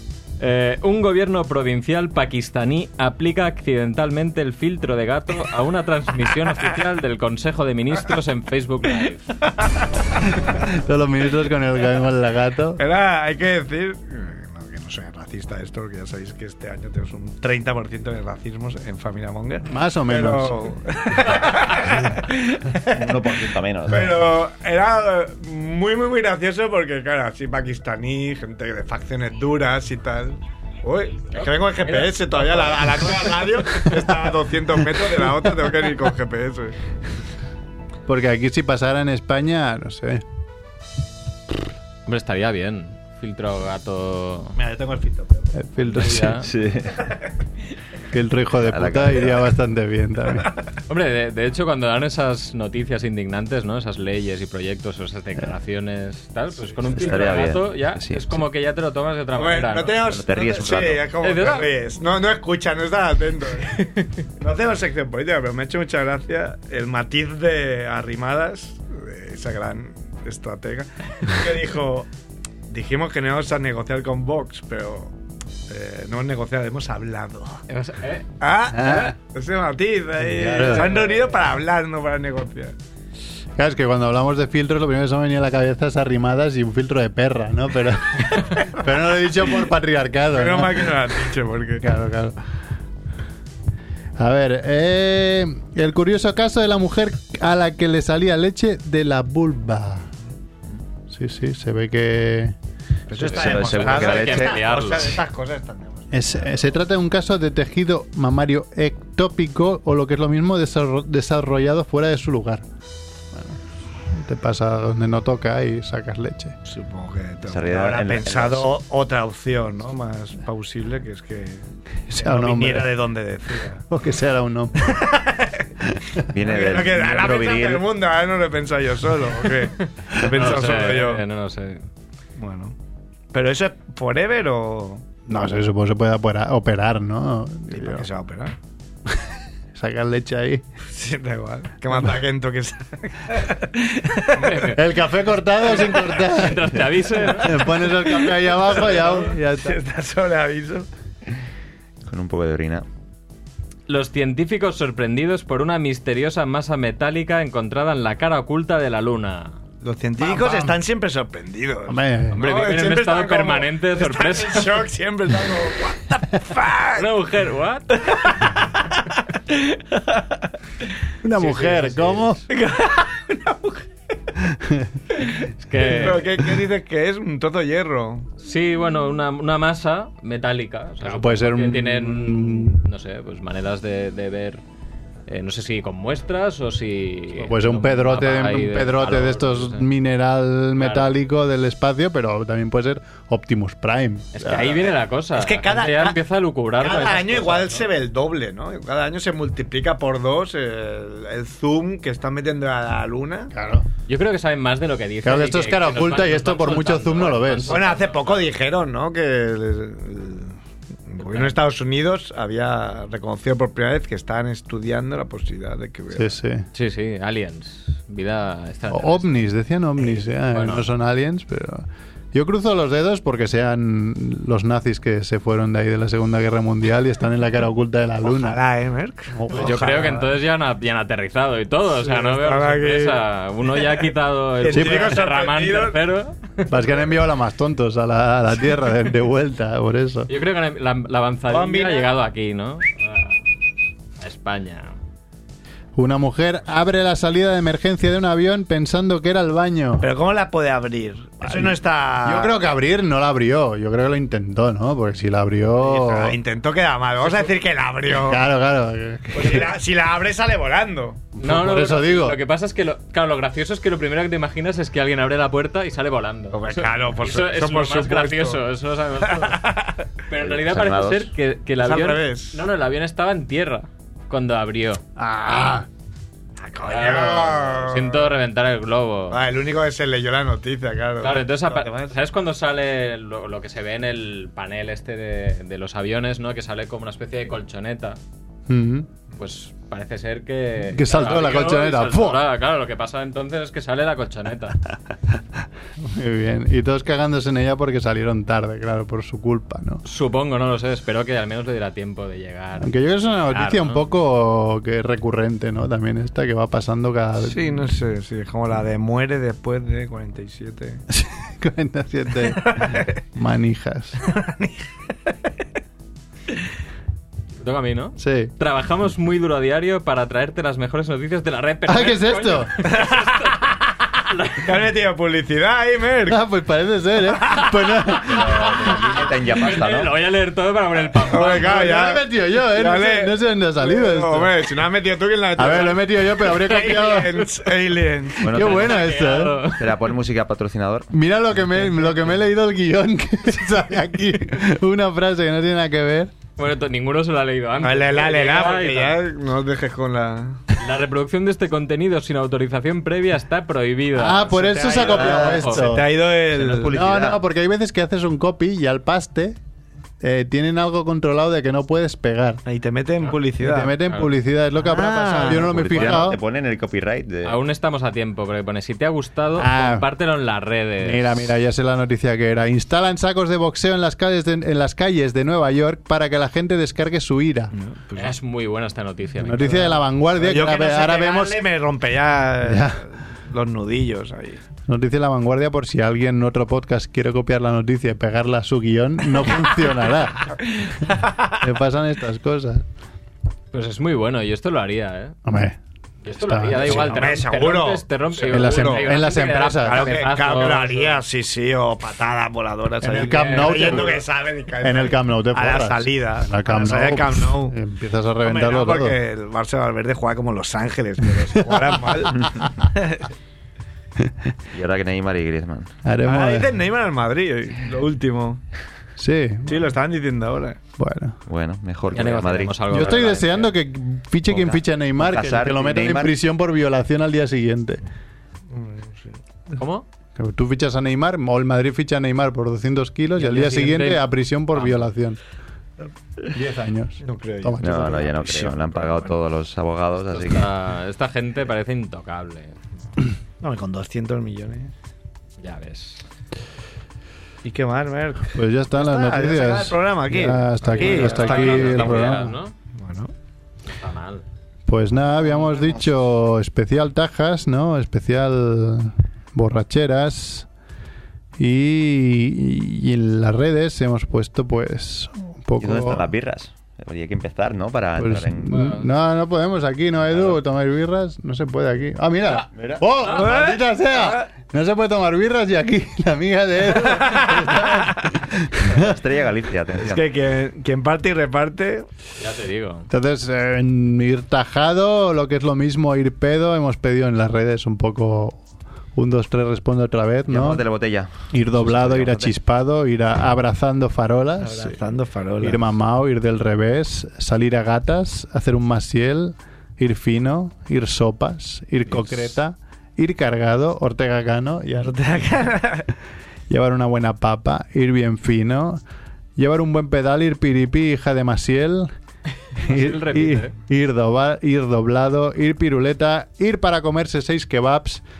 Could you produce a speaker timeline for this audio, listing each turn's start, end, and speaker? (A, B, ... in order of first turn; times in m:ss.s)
0:00.4-0:09.4 A
0:10.4-0:12.8 B
0:12.8-0:36.8 C
0:19.7-0:20.7 B
0:22.9-0:24.2 D
0:31.3-0:33.8 A
0:38.0-0:40.2 B
0:42.1-0:44.5 A
0:44.5-0:45.6 C
0:45.5-0:46.4 B
0:45.8-0:46.5 A
0:46.4-0:47.1 D
0:48.1-0:50.5 B
0:48.6-0:49.5 D
0:50.9-1:00.0 A
0:56.9-0:57.3 C
0:56.9-0:58.4 D
0:59.3-1:12.1 C
1:00.0-1:01.1 D
1:01.2-1:01.7 A
1:12.7-1:15.1 C
1:15.7-1:17.6 C
1:17.7-1:18.2 A
1:18.4-1:22.7 C
1:18.7-1:19.1 B
1:20.2-1:21.0 B
1:23.6-1:31.1 B
1:28.5-1:28.8 C
1:30.3-1:31.8 C
1:31.8-1:32.4 B
1:34.2-1:40.1 B
1:41.1-1:42.5 B
1:43.1-1:46.7 C
1:43.2-1:45.2 A
1:43.2-1:44.6 D
1:46.1-1:52.6 B
1:53.3-1:53.6 B
1:54.1-1:56.6 B
1:56.6-2:03.8 C
1:57.4-1:58.7 D
2:02.1-2:02.9 B
2:03.9-2:05.1 B
2:04.8-2:05.7 C
2:06.0-2:06.2 B
2:06.3-2:07.8 D
2:06.4-2:11.2 C
2:10.2-2:11.8 A
2:12.4-2:12.7 C
2:13.3-2:15.0 C
2:15.3-2:18.0 B
2:17.7-2:18.5 C
2:19.1-2:20.6 B
2:20.9-2:24.7 C
2:24.4-2:24.8 A
2:24.7-2:29.8 B
2:25.9-2:27.6 A
2:27.8-2:30.9 C
2:32.1-2:32.8 D
2:33.9-2:39.6 A
2:39.8-2:47.1 C
2:40.2-2:40.8 B
2:41.9-2:42.4 B
2:42.3-2:44.8 A
2:46.9-2:48.3 A
2:48.0-2:50.5 C
2:51.2-2:52.4 B
2:51.4-2:52.4 A
2:52.5-2:53.9 C
2:54.4-2:55.0 B
2:55.1-2:58.3 C
2:55.6-2:56.2 A
2:58.4-3:04.6 A
3:01.0-3:02.8 B
3:05.3-3:09.9 A
3:07.3-3:14.8 B
3:10.8-3:11.1 A
3:14.3-3:17.8 A
3:15.3-3:16.2 C
3:16.7-3:23.5 C
3:23.5-3:23.9 B
3:24.1-3:28.4 A
3:25.2-3:27.8 B
3:27.7-3:30.6 C
3:31.1-3:36.4 C
3:31.2-3:31.5 A
3:36.1-3:36.7 B
3:36.7-3:39.3 A
3:38.9-3:48.6 B
3:40.5-3:40.8 A
3:48.2-3:50.2 C
3:49.3-3:50.2 B
3:49.5-3:56.8 A
3:51.9-3:54.0 C
3:54.6-3:56.0 C
3:54.7-3:55.2 B
3:56.7-4:00.3 B
4:00.3-4:03.4 A
4:01.5-4:02.1 C
4:04.2-4:04.9 A
4:06.0-4:10.1 B
4:10.0-4:12.6 C
4:11.4-4:16.4 B
4:15.8-4:18.4 C
4:18.2-4:19.7 B
4:19.3-4:21.3 C
4:21.4-4:22.4 B
4:21.4-4:29.7 A
4:26.5-4:28.6 C
4:29.2-4:30.0 C
4:30.3-4:35.0 A
4:30.3-4:31.3 D
4:31.8-4:32.6 C
4:35.2-4:35.9 B
4:36.6-4:38.3 C
4:36.8-4:39.4 A
4:39.3-4:42.1 C
4:41.2-4:48.2 A
4:48.7-4:49.1 B
4:49.4-4:54.8 A
4:50.9-4:52.4 B
4:56.0-5:00.0 B
5:00.0-5:04.0 A
5:02.8-5:07.8 B
5:07.4-5:11.0 C
5:11.1-5:14.2 B
5:12.5-5:13.1 C
5:14.2-5:15.3 C
5:17.6-5:23.6 A
5:18.2-5:18.5 B
5:21.9-5:22.7 B
5:22.9-5:23.7 C
5:24.3-5:24.7 A
5:24.6-5:26.4 C
5:26.2-5:28.6 B
5:27.4-5:27.7 C
5:28.2-5:30.1 D
5:28.8-5:31.7 A
5:31.3-5:38.5 C
5:31.5-5:34.5 B
5:35.6-5:37.5 B
5:38.4-5:39.1 D
5:38.4-5:39.7 B
5:38.5-5:39.9 A
5:39.7-5:41.1 D
5:41.1-5:46.3 B
5:46.6-5:49.2 A
5:47.8-5:50.6 C
5:50.8-5:55.9 A
5:54.1-5:56.2 B
5:54.6-5:57.0 C
5:56.5-5:57.4 D
5:56.9-5:59.6 B
6:00.2-6:02.6 B
6:02.6-6:03.9 C
6:03.6-6:06.4 B
6:04.8-6:05.7 C
6:05.4-6:07.6 D
6:07.4-6:11.5 A
6:09.6-6:10.0 B
6:11.0-6:17.7 B
6:17.7-6:18.3 C
6:18.1-6:20.0 A
6:19.4-6:21.6 B
6:20.4-6:24.6 C
6:22.6-6:23.0 B
6:24.8-6:32.8 B
6:30.8-6:31.5 C
6:33.7-6:35.4 A
6:35.4-6:37.4 B
6:36.2-6:41.2 A
6:36.8-6:39.0 C
6:38.4-6:40.1 B
6:39.8-6:47.8 C
6:43.0-6:44.2 B
6:43.2-6:44.1 A
6:44.8-6:49.2 B
6:48.4-6:53.3 C
6:51.7-6:52.0 B
6:54.2-6:54.5 B
6:54.7-6:55.9 D
6:56.0-6:56.8 B
6:56.2-6:58.6 C
6:59.2-6:59.8 B
6:59.6-7:00.8 C
7:01.0-7:01.4 B
7:01.5-7:03.1 D
7:02.1-7:03.7 A
7:02.9-7:08.0 B
7:04.5-7:06.3 D
7:08.7-7:09.4 C
7:09.8-7:10.0 A
7:10.4-7:15.4 B
7:13.4-7:15.1 A
7:16.5-7:18.3 B
7:17.2-7:19.3 C
7:17.8-7:20.7 D
7:20.3-7:22.8 A
7:23.6-7:24.9 C
7:25.6-7:26.2 A
7:27.6-7:32.3 C
7:28.5-7:32.5 B
7:30.9-7:32.7 A
7:33.0-7:33.3 C
7:33.9-7:34.4 A
7:34.9-7:40.7 B
7:41.6-7:46.2 B
7:45.8-7:48.9 D
7:48.2-7:59.2 B
7:48.7-7:49.1 A
7:52.7-7:53.0 D
7:53.2-7:53.5 A
7:53.3-7:54.4 C
7:57.0-7:58.0 C
7:58.8-8:00.2 D
8:00.0-8:02.1 C
8:02.4-8:03.1 A
8:03.1-8:08.6 B
8:09.1-8:10.8 B
8:10.5-8:12.5 D
8:11.5-8:15.0 B
8:14.6-8:15.8 C
8:15.6-8:25.4 B
8:22.1-8:22.4 C
8:25.0-8:26.1 C
8:26.7-8:29.0 B
8:29.6-8:32.1 B
8:32.8-8:33.7 A
8:32.8-8:38.2 B